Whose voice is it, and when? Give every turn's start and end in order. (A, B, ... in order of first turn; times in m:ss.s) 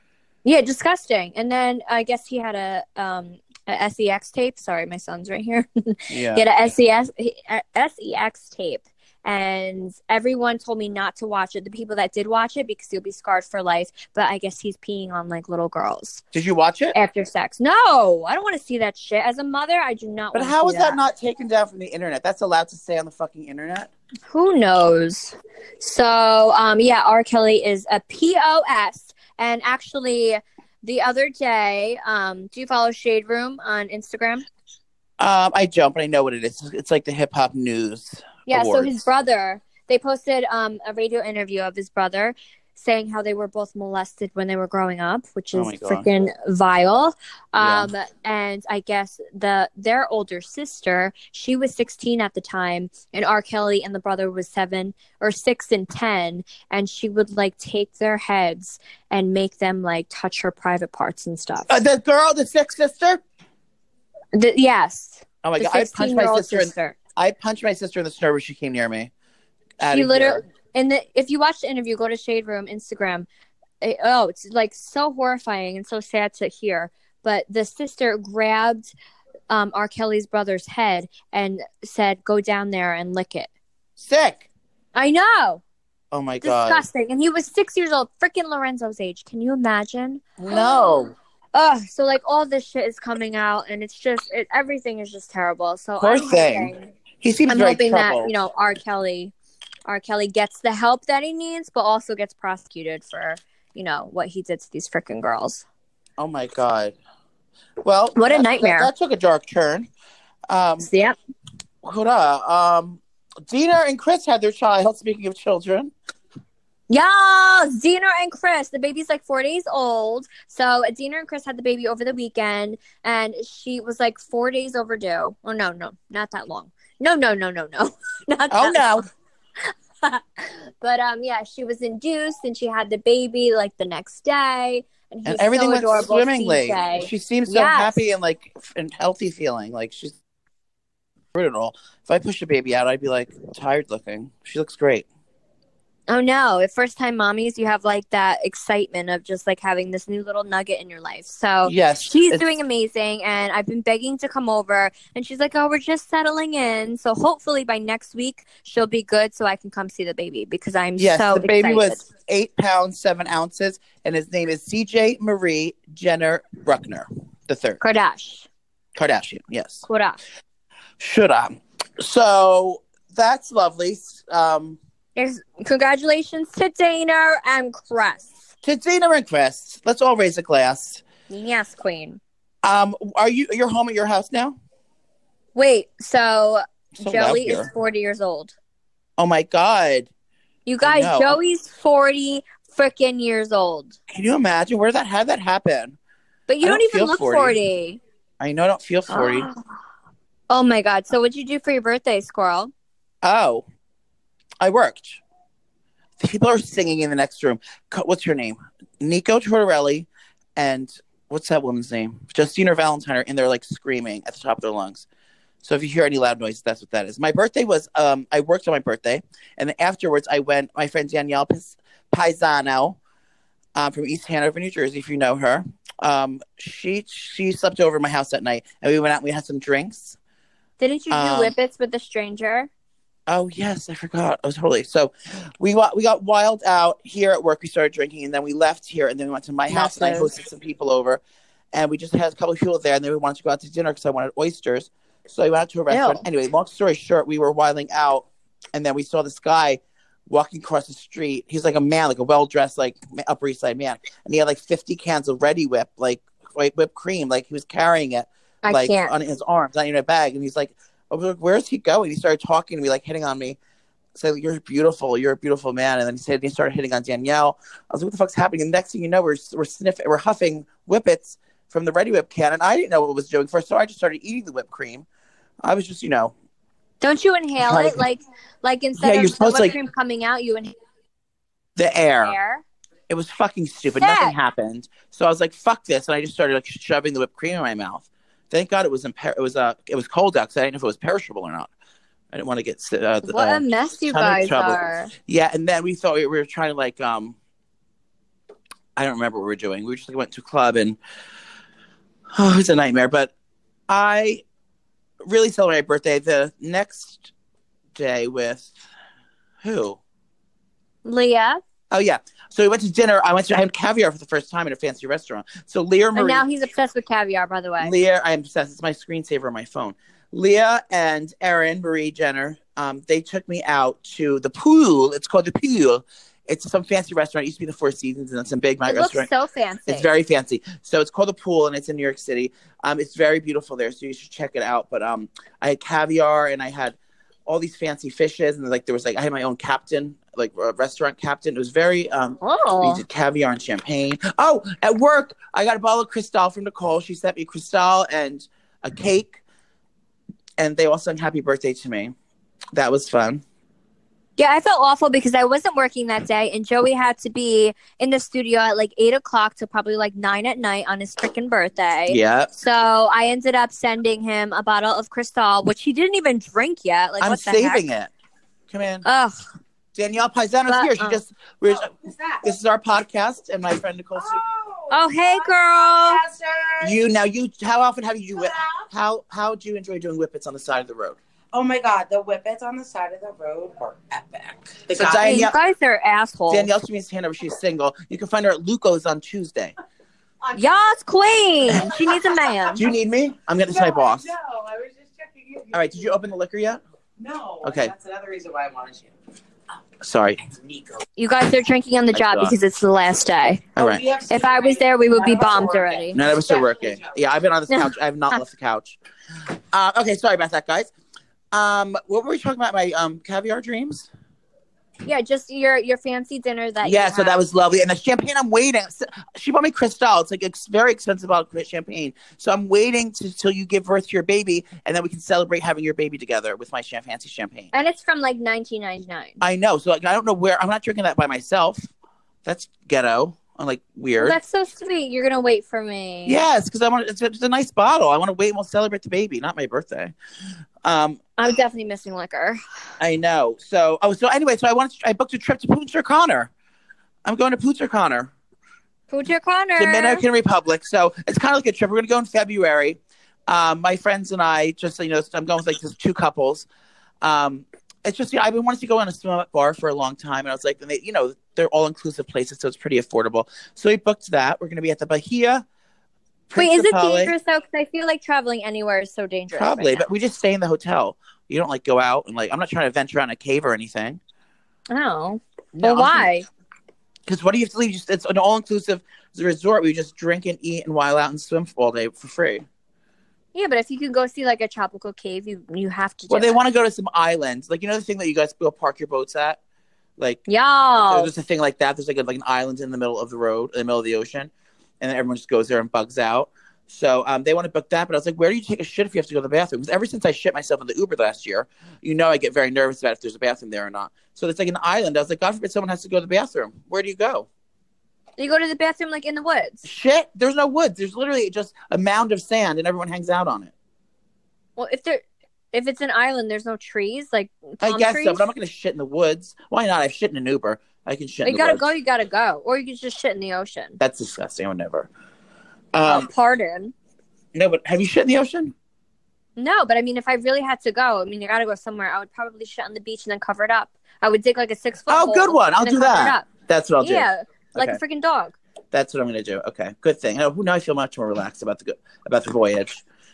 0:00.4-0:16.2 A
0:06.1-0:06.4 B
0:16.3-0:17.0 B
0:16.9-0:21.0 A
0:20.3-0:23.9 B
0:24.3-0:34.4 A
0:35.2-0:38.9 B
0:38.5-1:01.7 A
0:45.5-0:46.1 B
0:47.6-0:47.9 B
1:01.7-1:03.2 B
1:04.3-1:07.0 A
1:05.4-1:09.1 B
1:09.8-1:10.4 B
1:09.8-1:13.3 A
1:13.8-1:18.9 A
1:19.5-1:23.5 A
1:24.0-1:24.5 B
1:25.0-1:25.6 A
1:26.1-1:26.9 B
1:26.4-1:31.0 A
1:30.4-1:31.1 B
1:31.6-1:37.0 A
1:36.0-1:38.3 B
1:37.5-1:39.3 A
1:39.9-1:45.6 A
1:46.2-1:47.0 B
1:47.8-1:49.9 B
1:48.2-1:48.9 A
1:50.5-1:50.9 B
1:50.8-1:51.2 A
1:51.8-1:55.9 B
1:56.9-2:09.0 A
2:08.5-2:09.0 B
2:10.8-2:17.9 A
2:15.3-2:20.2 B
2:21.3-2:25.0 B
2:26.1-2:42.0 A
2:31.6-2:32.4 B
2:41.0-2:47.8 B
2:47.8-2:48.5 A
2:49.0-2:49.9 B
2:49.9-2:50.2 A
2:51.0-2:54.8 B
2:55.2-2:58.5 A
2:58.6-3:01.0 B
3:01.3-3:02.2 A
3:02.6-3:04.6 B
3:05.6-3:08.5 A
3:07.0-3:07.7 B
3:09.2-3:10.1 B
3:10.7-3:14.0 A
3:10.8-3:11.4 B
3:14.1-3:16.0 B
3:16.5-3:18.0 A
3:16.6-3:17.6 B
3:18.4-3:19.5 B
3:19.1-3:19.6 A
3:20.5-3:22.7 A
3:23.2-3:23.6 B
3:24.6-3:25.2 B
3:26.2-3:35.1 B
3:35.6-3:43.0 B
3:43.8-3:50.2 B
3:50.8-3:52.7 A
3:51.1-3:51.5 B
3:53.3-4:01.2 B
3:59.7-4:00.3 A
4:01.7-4:23.6 B
4:05.9-4:06.2 A
4:18.6-4:19.1 A
4:24.2-4:35.1 B
4:35.6-4:36.3 B
4:37.0-4:40.8 A
4:37.6-4:38.0 B
4:39.0-4:39.8 B
4:41.8-4:42.4 B
4:42.2-4:42.6 A
4:43.1-4:51.7 B
4:44.0-4:44.3 A
4:52.3-4:57.4 B
4:53.2-4:55.1 A
4:59.0-5:01.0 B
5:02.4-5:03.3 B
5:03.9-5:04.4 B
5:05.2-5:07.3 B
5:08.0-5:08.7 B
5:09.6-5:10.0 B
5:11.0-5:11.6 A
5:11.9-5:16.5 B
5:16.2-5:18.0 A
5:17.8-5:29.3 B
5:28.9-5:30.1 A
5:29.9-5:49.4 B
5:42.4-5:43.0 A
5:50.6-5:52.1 B
5:52.7-5:53.4 B
5:54.4-6:07.8 A
6:02.1-6:02.5 B
6:07.2-6:08.1 B
6:08.7-6:09.0 B
6:09.0-6:09.4 A
6:10.0-6:14.4 B
6:10.7-6:11.2 A
6:11.7-6:12.4 C
6:14.2-6:17.0 C
6:14.9-6:16.2 A
6:16.8-6:21.2 B
6:18.4-6:18.8 C
6:21.5-6:25.5 C
6:24.9-6:25.6 B
6:25.2-6:26.7 A
6:26.5-6:29.7 B
6:30.5-6:30.8 C
6:30.6-6:32.8 A
6:31.7-6:32.9 C
6:32.7-6:34.3 B
6:33.7-6:36.2 C
6:35.7-6:36.8 B
6:37.2-6:39.1 C
6:37.6-6:37.9 B
6:40.0-6:40.5 B
6:41.2-6:43.7 A
6:42.1-6:42.6 B
6:43.8-6:44.1 B
6:43.8-6:47.1 C
6:44.3-6:46.2 A
6:46.1-6:49.0 B
6:47.7-6:48.4 A
6:49.7-6:50.9 B
6:51.5-6:54.1 B
6:55.0-6:57.4 A
6:56.8-7:07.7 B
7:07.7-7:09.4 A
7:09.4-7:11.9 B
7:12.4-7:14.4 B
7:14.2-7:16.4 A
7:16.2-7:20.1 B
7:20.8-7:21.2 B
7:21.4-7:22.6 A
7:23.0-7:26.5 B
7:27.2-7:28.3 B
7:29.1-7:30.2 A
7:29.8-7:36.7 B
7:37.2-7:45.6 B
7:46.5-7:47.3 B
7:46.6-7:50.0 A
7:49.5-7:54.2 B
7:54.9-7:56.5 A
7:55.8-7:56.3 B
7:57.3-8:02.6 B
8:03.5-8:06.6 A
8:06.3-8:09.6 B
8:10.2-8:10.4 B
8:10.5-8:11.3 A
8:11.0-8:27.5 B
8:28.4-8:29.8 A
8:29.8-8:33.7 B
8:34.8-8:38.4 A
8:37.8-8:41.8 B
8:41.4-8:44.0 A
8:44.0-8:45.1 B
8:45.9-8:46.3 B
8:46.1-8:46.9 A
8:47.5-8:48.7 B
8:49.6-8:56.5 A
8:55.1-8:58.0 B
8:57.0-8:58.6 A
8:58.9-9:03.0 B